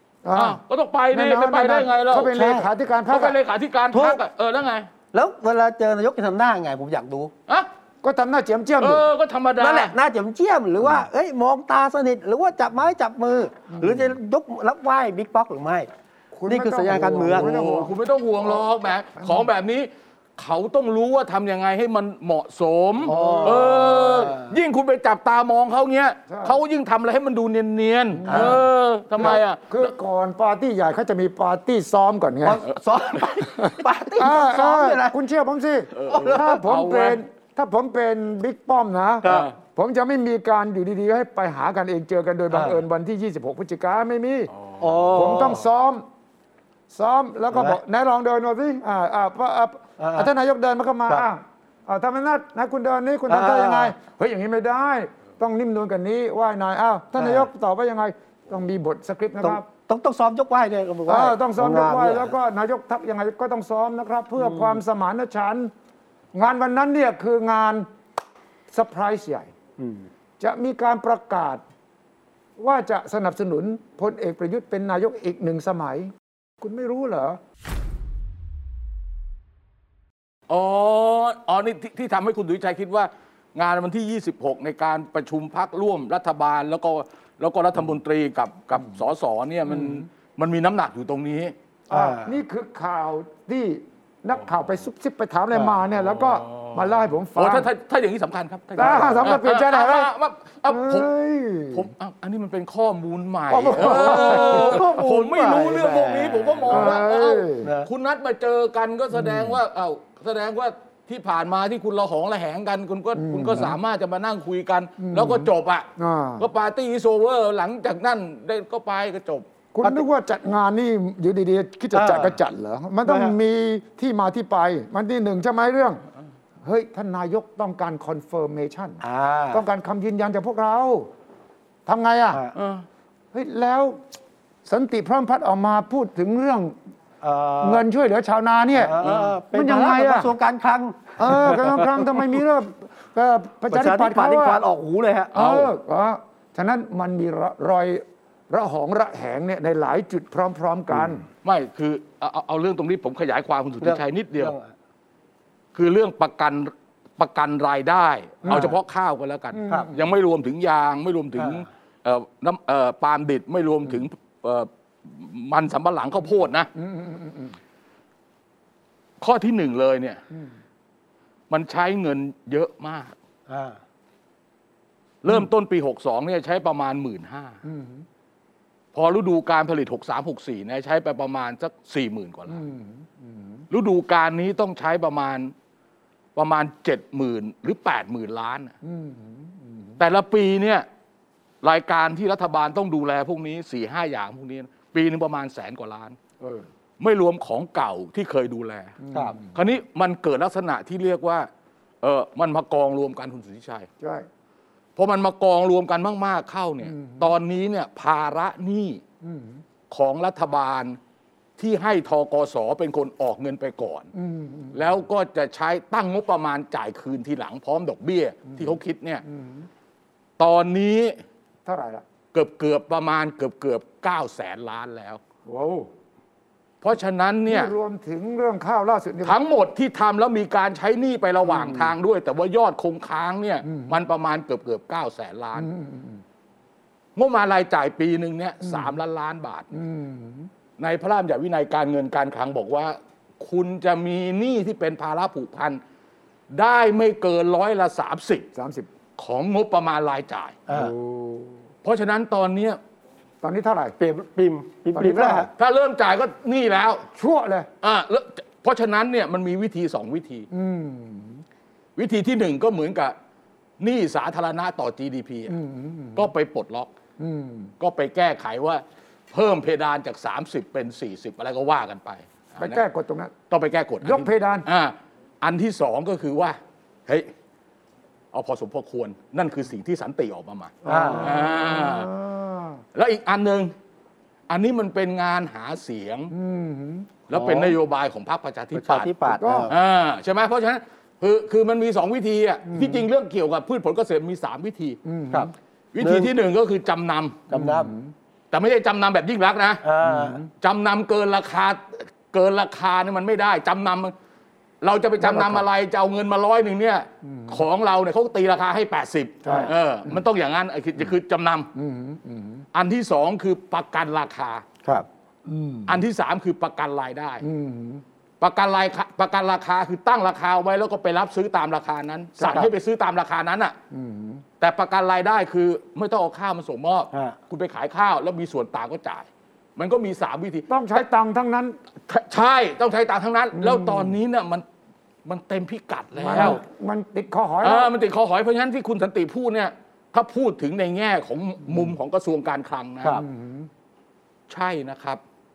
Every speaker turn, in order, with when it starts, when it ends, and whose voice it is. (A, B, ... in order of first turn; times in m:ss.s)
0:00.2-0:00.6 A
0:00.4-0:02.4 B
0:01.1-0:03.4 A
0:02.3-0:02.7 C
0:03.1-0:04.9 B
0:03.9-0:04.2 C
0:05.1-0:07.3 C
0:08.0-0:09.1 A
0:08.8-0:10.0 B
0:09.6-0:15.9 C
0:13.7-0:14.1 A
0:16.3-0:18.6 A
0:16.5-0:17.6 C
0:17.3-0:29.9 B
0:19.1-0:19.4 A
0:23.0-0:24.6 C
0:23.1-0:23.7 A
0:26.3-0:26.6 A
0:28.1-0:28.7 A
0:28.3-0:28.6 C
0:29.2-0:32.6 A
0:32.4-0:35.2 C
0:33.6-0:44.5 A
0:36.0-0:37.2 B
0:36.1-0:36.6 C
0:39.2-0:39.5 C
0:39.2-0:39.5 B
0:42.5-0:42.8 C
0:44.5-0:45.6 B
0:44.8-0:45.7 C
0:45.1-0:46.0 A
0:46.9-0:59.7 A
0:47.5-0:47.8 C
0:50.0-0:50.3 C
0:53.3-0:54.0 C
0:57.2-0:57.5 C
0:59.4-1:02.4 C
1:01.1-1:05.7 A
1:04.4-1:04.8 C
1:06.3-1:07.9 A
1:08.7-1:09.5 A
1:09.8-1:10.1 C
1:10.4-1:11.6 A
1:12.6-1:17.4 A
1:20.5-1:31.5 B
1:31.9-1:32.4 C
1:31.9-1:37.7 A
1:35.5-1:35.8 C
1:36.0-1:41.1 B
1:38.8-1:39.3 C
1:38.8-1:40.1 A
1:40.7-1:41.9 A
1:41.7-1:55.9 B
1:43.5-1:47.0 C
1:43.6-1:44.9 A
1:46.7-1:47.7 A
1:47.6-1:47.9 C
1:49.1-1:49.6 A
1:53.2-1:53.8 A
1:55.0-1:56.5 A
1:56.4-1:59.4 B
1:59.7-2:06.0 A
2:01.9-2:02.4 C
2:03.0-2:03.4 C
2:06.6-2:09.0 A
2:09.0-2:09.6 C
2:09.5-2:11.1 A
2:11.9-2:12.4 A
2:12.6-2:12.8 B
2:13.3-2:14.0 A
2:14.6-2:16.8 A
2:17.2-2:17.8 C
2:17.6-2:19.0 A
2:18.7-2:22.4 C
2:19.0-2:19.4 B
2:19.5-2:20.3 A
2:21.2-2:24.6 A
2:23.7-2:25.7 C
2:25.4-2:31.2 A
2:31.4-2:34.5 B
2:33.8-2:34.7 C
2:35.7-2:46.7 B
2:38.5-2:38.7 A
2:38.5-2:38.8 C
2:39.5-2:40.0 A
2:41.4-2:41.7 C
2:46.8-2:47.6 A
2:49.2-2:50.2 B
2:51.5-2:53.1 B
2:53.5-2:53.8 C
2:55.2-2:57.6 B
2:57.6-2:58.0 A
2:58.9-3:02.6 B
3:02.5-3:03.6 A
3:03.7-3:05.5 B
3:06.4-3:08.7 B
3:08.8-3:10.0 A
3:10.0-3:10.9 B
3:11.6-3:16.2 B
3:16.4-3:16.7 A
3:17.0-3:19.0 B
3:19.0-3:19.5 A
3:19.6-3:21.5 B
3:22.0-3:23.9 B
3:24.0-3:24.3 A
3:25.0-3:29.0 B
3:26.8-3:27.3 A
3:29.2-3:29.6 A
3:29.9-3:31.0 B
3:31.6-3:34.1 B
3:34.2-3:34.8 A
3:34.7-3:39.2 B
3:39.3-3:39.7 A
3:40.4-3:41.2 B
3:41.7-3:42.0 A
3:42.3-3:45.2 B
3:45.5-3:45.9 A
3:46.8-3:47.7 B
3:47.5-3:49.4 A
3:49.2-3:55.7 B
3:51.5-3:51.9 A
3:55.6-3:56.2 A
3:57.2-3:59.7 B
3:58.6-3:58.9 A
3:59.7-4:00.5 A
4:00.8-4:05.8 B
4:06.5-4:08.5 B
4:08.6-4:08.9 A
4:09.2-4:10.6 B
4:10.7-4:10.9 C
4:10.7-4:11.6 A
4:11.8-4:12.8 B
4:13.4-4:14.0 A
4:14.0-4:15.5 C
4:15.0-4:15.5 A
4:15.6-4:17.0 B
4:17.1-4:17.7 A
4:17.8-4:20.5 B
4:20.5-4:21.4 A
4:22.0-4:23.2 B
4:23.8-4:25.6 B
4:25.5-4:26.3 A
4:26.2-4:26.9 B
4:27.2-4:27.7 A
4:27.8-4:32.8 B
4:32.6-4:33.3 A
4:33.5-4:37.3 B
4:34.0-4:34.6 A
4:38.3-4:42.1 B
4:40.8-4:42.8 A
4:40.9-4:41.4 C
4:43.0-4:43.7 B
4:44.5-4:46.3 B
4:46.3-4:47.1 A
4:47.3-4:55.0 B
4:47.3-4:47.8 C
4:48.7-4:49.8 C
4:49.4-4:49.7 A
4:52.7-4:53.0 A
4:55.0-4:55.5 A
4:55.3-4:56.3 C
4:55.9-4:57.4 B
4:57.5-4:57.9 C
4:57.5-4:58.1 A
4:58.5-4:59.9 B
4:59.8-5:00.4 C
5:00.0-5:00.5 A
5:00.6-5:04.1 B
5:04.8-5:11.7 B
5:05.3-5:05.6 C
5:07.3-5:07.6 A
5:09.4-5:09.7 A
5:11.8-5:12.6 A
5:12.7-5:14.6 B
5:15.5-5:16.0 A
5:15.9-5:17.4 B
5:17.4-5:18.0 A
5:18.4-5:23.8 B
5:22.4-5:22.7 A
5:23.9-5:24.4 A
5:24.6-5:31.0 B
5:27.1-5:27.4 C
5:30.7-5:31.8 A
5:32.1-5:34.6 B
5:33.6-5:34.2 A
5:35.2-5:36.6 B
5:36.2-5:37.9 A
5:36.3-5:36.6 C
5:37.6-5:43.2 B
5:43.1-5:43.7 A
5:44.5-5:45.2 B